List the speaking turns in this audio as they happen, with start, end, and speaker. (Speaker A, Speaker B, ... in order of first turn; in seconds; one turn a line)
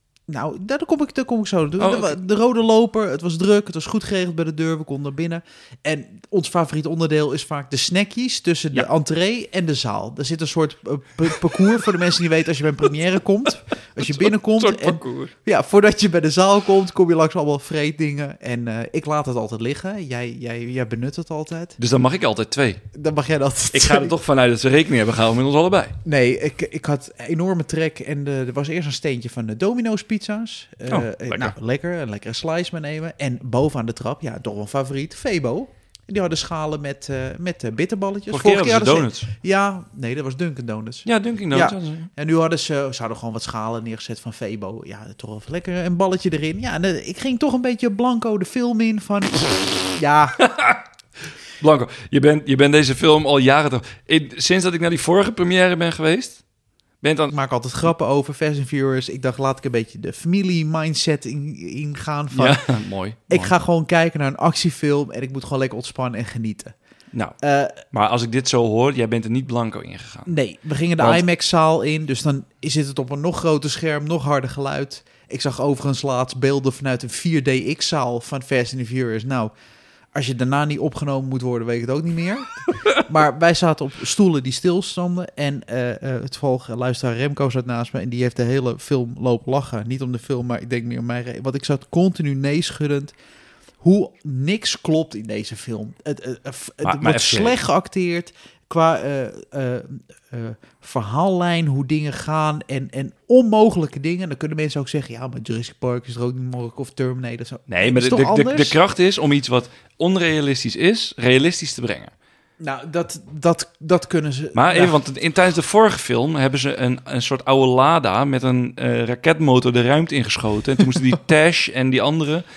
Speaker A: 0.3-21.8
Speaker B: 1.8-2.2
Speaker B: 14.0-15.3
Speaker B: 21.8-22.8
Speaker A: 22.9-24.1
Speaker B: 23.7-26.0
Speaker A: 26.1-50.4
Speaker B: 30.9-31.5
Speaker B: 38.3-39.3
Speaker B: 41.1-42.1
Speaker B: 50.4-50.8
Speaker B: 51.6-56.4
Speaker B: 57.0-57.3
Speaker A: 57.3-62.6
Speaker B: 62.3-63.5
Speaker A: 63.3-66.8
Speaker B: 67.1-67.4
Speaker A: 67.4-67.8
Speaker B: 67.9-70.3
Speaker A: 70.3-79.5
Speaker B: 71.0-71.2
Speaker A: 80.1-93.1
Speaker A: 93.8-108.8
Speaker B: 96.8-97.6
Speaker B: 107.7-112.1
Speaker A: 112.6-115.0
Speaker B: 114.5-122.4